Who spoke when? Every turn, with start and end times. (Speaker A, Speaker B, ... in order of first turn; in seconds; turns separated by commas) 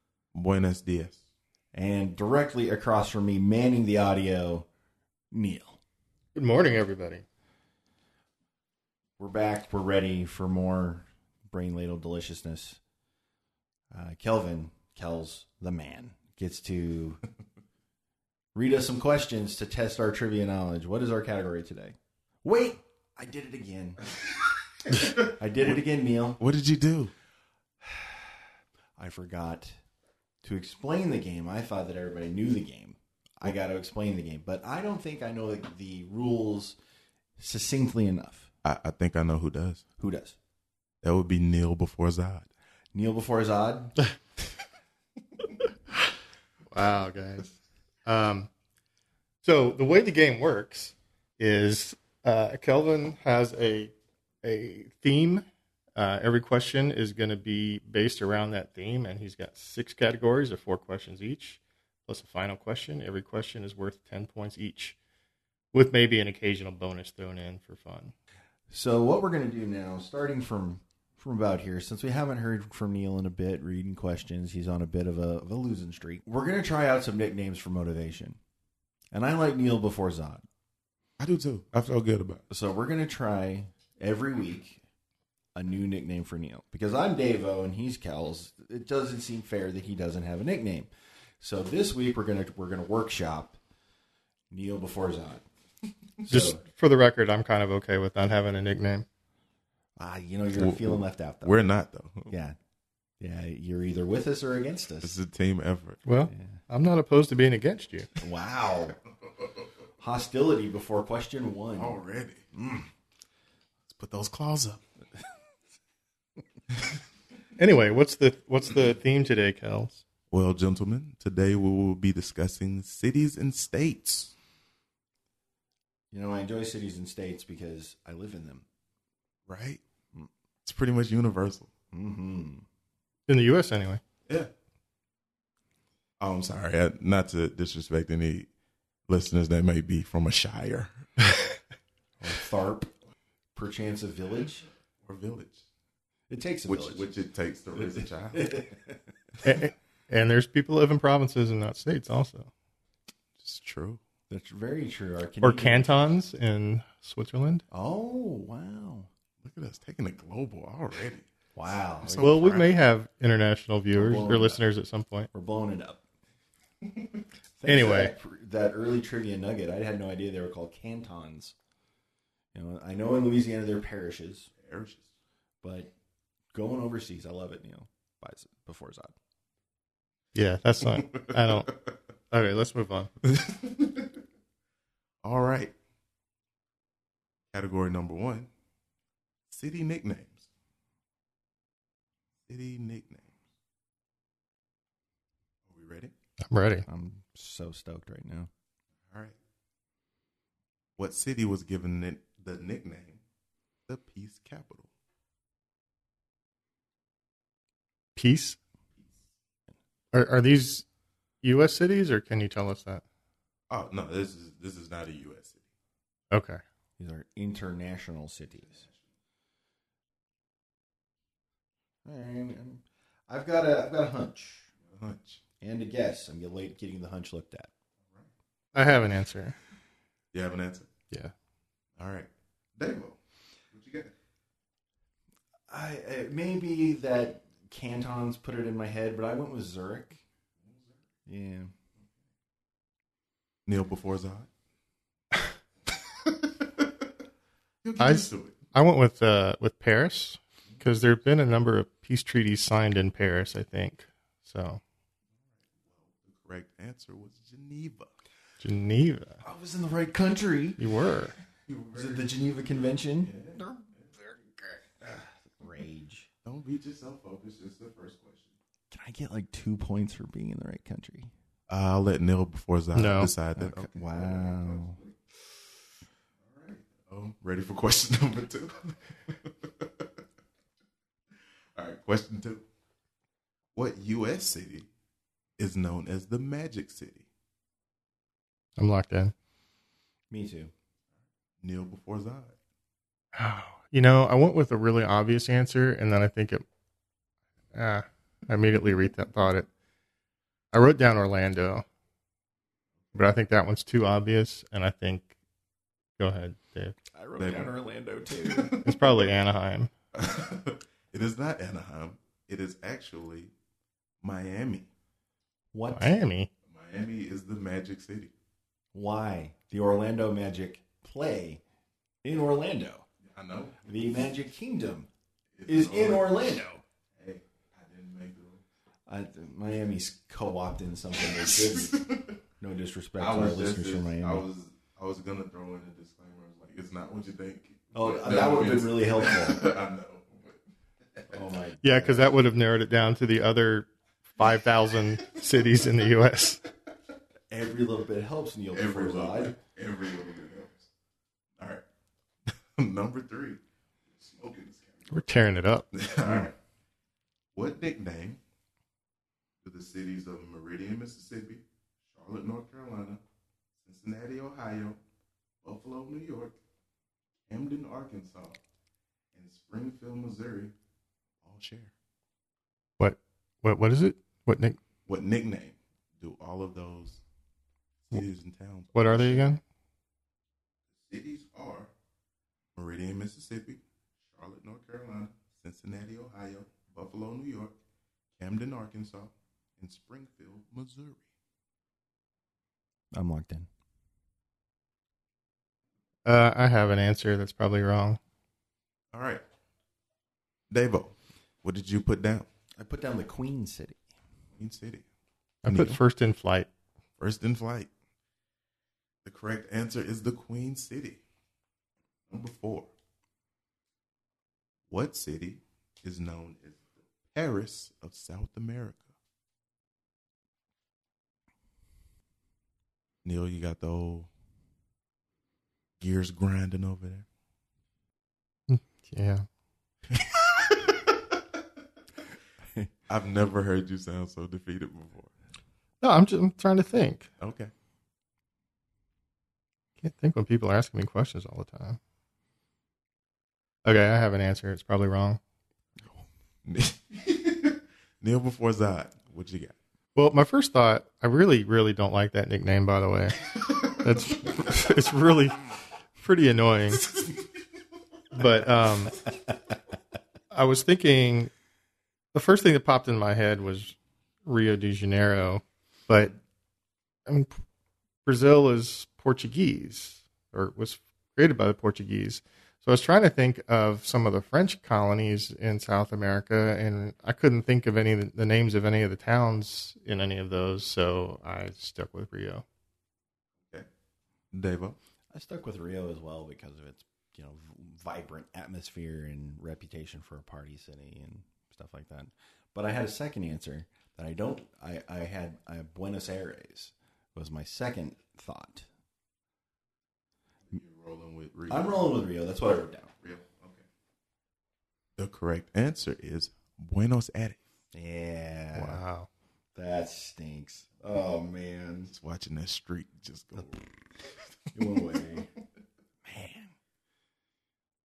Speaker A: 0.3-1.2, Speaker B: 1.7-4.7, Speaker B: 5.3-5.8, Speaker C: 6.3-7.2, Speaker B: 9.2-12.8, Speaker B: 13.9-17.2, Speaker B: 18.5-24.0, Speaker B: 24.9-26.4, Speaker A: 25.2-25.8, Speaker A: 26.4-27.1, Speaker B: 27.8-29.8, Speaker B: 30.4-36.8, Speaker B: 37.4-38.5, Speaker A: 38.6-39.9, Speaker B: 40.0-40.4, Speaker A: 41.0-42.5, Speaker B: 42.9-44.0, Speaker C: 46.7-48.5, Speaker C: 49.4-55.4, Speaker C: 56.0-65.0, Speaker C: 65.7-68.1, Speaker B: 68.7-78.4, Speaker B: 79.1-80.4, Speaker A: 81.2-82.4, Speaker B: 82.5-84.8, Speaker B: 85.5-93.6, Speaker B: 94.5-95.5, Speaker B: 96.2-96.6, Speaker C: 96.3-99.1, Speaker B: 100.0-101.6, Speaker A: 100.5-102.3, Speaker B: 102.3-102.6, Speaker B: 103.2-105.2, Speaker A: 105.0-106.0, Speaker C: 106.0-108.1, Speaker B: 106.3-106.6, Speaker B: 108.2-109.0, Speaker B: 110.0-112.0, Speaker A: 111.8-112.4, Speaker B: 112.5-112.9, Speaker A: 113.9-114.8, Speaker C: 117.6-120.0, Speaker A: 120.3-124.3, Speaker B: 126.1-128.7, Speaker A: 129.5-129.8, Speaker A: 130.6-131.7, Speaker B: 131.9-132.7, Speaker C: 133.3-134.0, Speaker A: 136.2-138.5, Speaker A: 139.1-141.1, Speaker B: 142.2-142.9, Speaker B: 143.5-144.7, Speaker A: 145.0-145.6, Speaker B: 146.3-147.1, Speaker A: 146.6-148.7, Speaker B: 147.8-149.0, Speaker C: 149.4-152.5, Speaker A: 153.4-154.0, Speaker B: 154.3-155.9, Speaker C: 155.4-157.6, Speaker B: 157.7-159.1, Speaker A: 159.4-161.3, Speaker B: 161.6-162.3, Speaker A: 162.0-162.8, Speaker C: 162.2-165.3, Speaker B: 163.9-164.6, Speaker B: 165.3-166.0, Speaker B: 167.6-171.6, Speaker C: 167.7-168.1, Speaker B: 172.5-174.5, Speaker A: 174.6-175.1, Speaker B: 175.6-175.9, Speaker B: 176.5-179.1, Speaker C: 180.3-181.7, Speaker A: 181.0-181.8, Speaker C: 182.3-183.1, Speaker A: 183.2-184.1, Speaker A: 185.2-185.7, Speaker A: 187.5-188.5, Speaker A: 189.5-190.4, Speaker A: 192.5-193.3, Speaker A: 195.7-196.1, Speaker C: 196.4-196.8, Speaker B: 196.8-198.5, Speaker A: 199.1-199.3, Speaker A: 201.0-203.2, Speaker A: 203.9-204.9, Speaker C: 208.2-208.6, Speaker C: 210.1-210.8, Speaker C: 211.4-213.0, Speaker A: 213.7-215.6, Speaker C: 216.3-216.6, Speaker B: 217.0-218.8, Speaker A: 218.7-219.0, Speaker B: 222.0-224.7, Speaker A: 224.8-225.4, Speaker B: 225.6-227.7, Speaker C: 228.7-229.6, Speaker A: 230.3-230.9, Speaker A: 232.0-233.2, Speaker A: 233.7-234.1, Speaker B: 235.7-240.2, Speaker B: 241.2-241.7, Speaker A: 243.7-244.5, Speaker A: 245.9-246.9, Speaker A: 247.8-248.6, Speaker C: 248.0-254.8, Speaker A: 255.9-258.1, Speaker C: 258.6-259.4, Speaker B: 259.4-260.8, Speaker C: 260.8-261.3, Speaker A: 261.6-262.5, Speaker B: 261.9-266.3, Speaker A: 263.2-264.1, Speaker A: 266.4-268.5, Speaker B: 268.9-271.3, Speaker A: 271.7-275.1, Speaker C: 272.9-273.3, Speaker B: 273.6-275.0, Speaker A: 276.4-280.1, Speaker A: 281.7-282.6, Speaker A: 283.7-284.9, Speaker A: 285.6-287.3, Speaker C: 288.8-289.3, Speaker B: 290.3-290.7, Speaker A: 291.6-292.6, Speaker C: 293.3-296.6, Speaker C: 297.7-299.7, Speaker C: 300.7-301.8, Speaker C: 303.1-305.3, Speaker C: 306.2-306.9, Speaker B: 307.1-308.8, Speaker A: 307.4-309.0, Speaker C: 308.8-309.9, Speaker A: 310.1-313.5, Speaker A: 314.2-314.9, Speaker B: 315.7-316.1, Speaker C: 315.9-316.5, Speaker A: 316.6-318.3, Speaker B: 318.9-321.6, Speaker B: 322.2-323.1, Speaker A: 323.2-323.8, Speaker B: 323.8-325.1, Speaker A: 325.6-326.5, Speaker B: 325.7-326.8, Speaker A: 327.1-328.6, Speaker B: 329.1-334.4, Speaker A: 331.2-332.4, Speaker A: 333.2-340.6, Speaker B: 337.9-339.6, Speaker B: 341.3-342.3, Speaker C: 341.8-346.6, Speaker B: 347.5-349.6, Speaker A: 348.7-350.9, Speaker A: 351.6-351.8, Speaker A: 352.5-355.3, Speaker C: 355.1-355.9, Speaker A: 355.9-356.5, Speaker A: 357.5-358.4, Speaker A: 359.6-363.2, Speaker A: 363.8-365.0, Speaker A: 365.6-366.6, Speaker A: 367.5-368.6, Speaker A: 369.3-370.7, Speaker A: 371.4-371.9, Speaker C: 373.0-374.8, Speaker A: 375.1-377.2, Speaker A: 378.1-379.5, Speaker C: 378.9-379.6, Speaker A: 381.0-381.9, Speaker A: 382.7-387.7, Speaker A: 388.4-391.2, Speaker B: 393.1-393.7, Speaker C: 396.2-398.2, Speaker A: 399.1-399.4, Speaker A: 400.7-402.5, Speaker B: 402.8-404.0, Speaker A: 404.5-405.0, Speaker C: 405.6-406.7, Speaker A: 405.6-406.0, Speaker A: 407.2-407.9, Speaker A: 409.2-411.2, Speaker A: 412.3-412.9, Speaker A: 414.9-419.1, Speaker A: 423.2-424.3, Speaker A: 426.0-427.2, Speaker C: 428.7-429.4, Speaker A: 430.1-431.1, Speaker A: 433.1-435.3, Speaker C: 436.0-437.3, Speaker A: 437.4-437.7, Speaker C: 440.0-442.0, Speaker C: 443.8-445.4, Speaker A: 446.6-449.8, Speaker C: 450.1-457.1, Speaker C: 458.3-459.2, Speaker B: 459.3-459.5, Speaker C: 460.5-461.5, Speaker C: 462.3-466.4, Speaker C: 467.2-467.6, Speaker C: 468.2-482.6, Speaker A: 484.5-485.0, Speaker B: 485.3-498.9, Speaker A: 500.7-502.1, Speaker B: 501.7-503.1, Speaker A: 503.2-503.8, Speaker A: 505.2-507.6, Speaker B: 507.9-509.0, Speaker C: 508.7-509.3, Speaker B: 509.7-512.1, Speaker A: 512.1-515.0, Speaker B: 514.7-515.5, Speaker B: 516.2-516.7